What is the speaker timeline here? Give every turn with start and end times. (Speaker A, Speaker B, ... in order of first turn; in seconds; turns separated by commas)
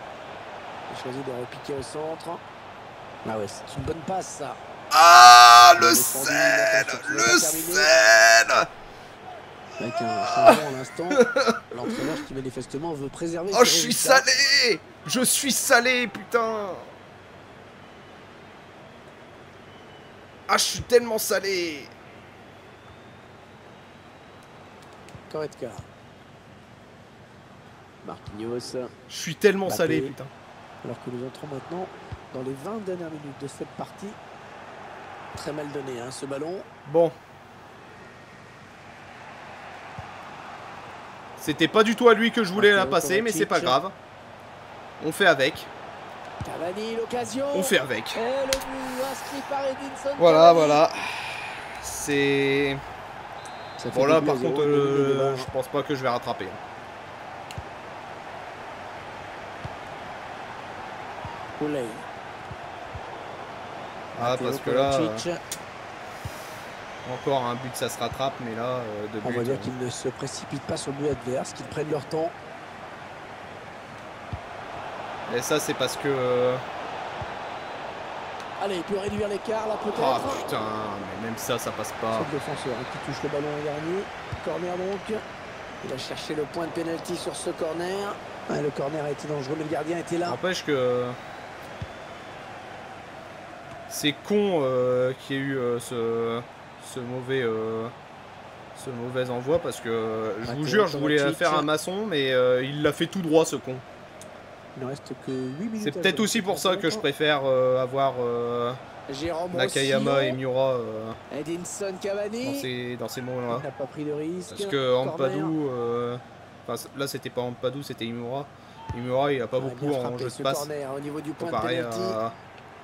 Speaker A: 0.9-2.4, Speaker A: 3.2-4.6, Speaker B: 4.9-8.7, Speaker A: 5.8-7.9, Speaker A: 9.8-14.3, Speaker B: 10.2-12.2, Speaker B: 13.5-16.9, Speaker B: 20.5-21.9, Speaker A: 25.3-25.9, Speaker A: 28.0-28.9, Speaker B: 29.1-30.3, Speaker A: 29.6-30.2, Speaker A: 30.8-34.2, Speaker A: 35.4-36.7, Speaker B: 36.9-37.1, Speaker B: 41.4-44.0, Speaker A: 42.6-43.8, Speaker B: 45.0-45.7, Speaker A: 46.5-50.8, Speaker B: 47.5-48.2, Speaker B: 50.2-52.8, Speaker A: 53.8-55.5, Speaker B: 53.9-56.6, Speaker A: 61.6-62.0, Speaker B: 64.2-65.3, Speaker A: 64.2-65.4, Speaker B: 67.0-69.7, Speaker A: 69.2-72.3, Speaker B: 75.3-76.6, Speaker A: 78.6-80.5, Speaker B: 79.9-82.3, Speaker A: 82.1-85.2, Speaker A: 85.8-90.4, Speaker B: 90.2-91.2, Speaker B: 93.9-97.9, Speaker B: 98.8-103.8, Speaker A: 100.5-101.7, Speaker A: 104.8-107.1, Speaker B: 105.8-108.8, Speaker A: 109.1-110.4, Speaker B: 109.5-111.2, Speaker A: 111.3-112.7, Speaker B: 112.4-113.7, Speaker A: 113.5-115.6, Speaker B: 114.5-120.7, Speaker A: 119.6-122.2, Speaker B: 121.4-122.3